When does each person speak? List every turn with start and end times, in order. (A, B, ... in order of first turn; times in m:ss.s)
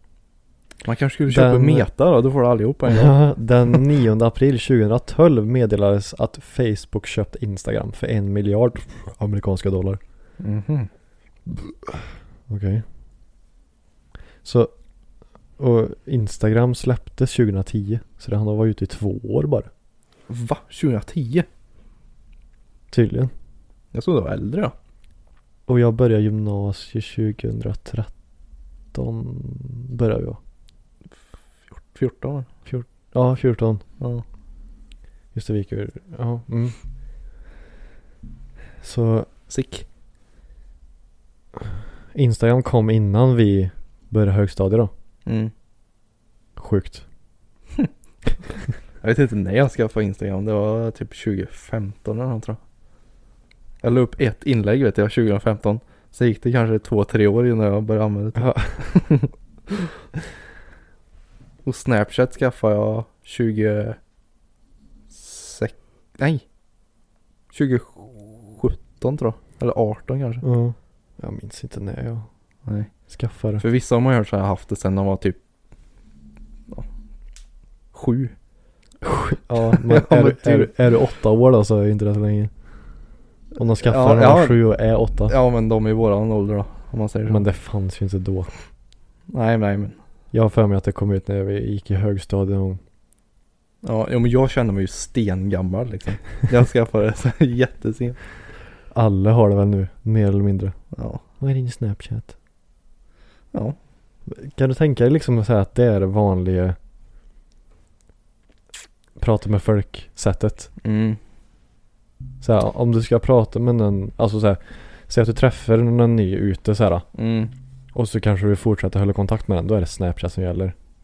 0:00.8-0:03.2 A
0:01.3-0:01.9 B
0:02.9-0:10.0 B
0:10.4-0:10.9 A
0:11.5-0:12.8 B
0:14.4-0:14.7 B
0:15.6-0:19.7 B
0:20.3-0:21.5 A
0:22.9-0:23.3 B
0:23.9-0:24.7 A
0:25.7-0:28.1 B
0:28.9-0:30.4 B
0:31.9-0:32.5 A
0:32.6-0:33.8 B
0:35.3-0:36.8 B
0:38.8-0:39.3 B
0:39.5-0:39.8 A
0:42.1-0:44.9 B
0:45.2-0:45.5 A
0:46.6-0:47.0 B
0:49.0-0:52.6 A
0:53.8-0:59.3 A
0:58.4-0:59.0 B
1:01.6-1:04.0 A
1:05.1-1:06.4 A
1:07.5-1:10.4 A
1:10.4-1:12.3 B
1:12.6-1:12.9 A
1:13.1-1:13.6 B
1:13.6-1:15.4 A
1:17.9-1:18.3 A
1:19.0-1:22.5 B
1:19.6-1:20.7 A
1:23.6-1:25.3 B
1:23.8-1:24.7 A
1:25.2-1:27.4 A
1:27.3-1:28.5 B
1:29.3-1:30.0 A
1:30.3-1:32.8 B
1:33.8-1:38.2 A
1:38.9-1:40.8 B
1:40.9-1:41.2 A
1:41.4-1:42.3 B
1:44.3-1:46.8 B
1:49.2-1:50.7 B
1:50.8-1:51.2 A
1:52.4-1:57.1 B
1:57.1-1:57.5 A
1:57.9-2:00.7 B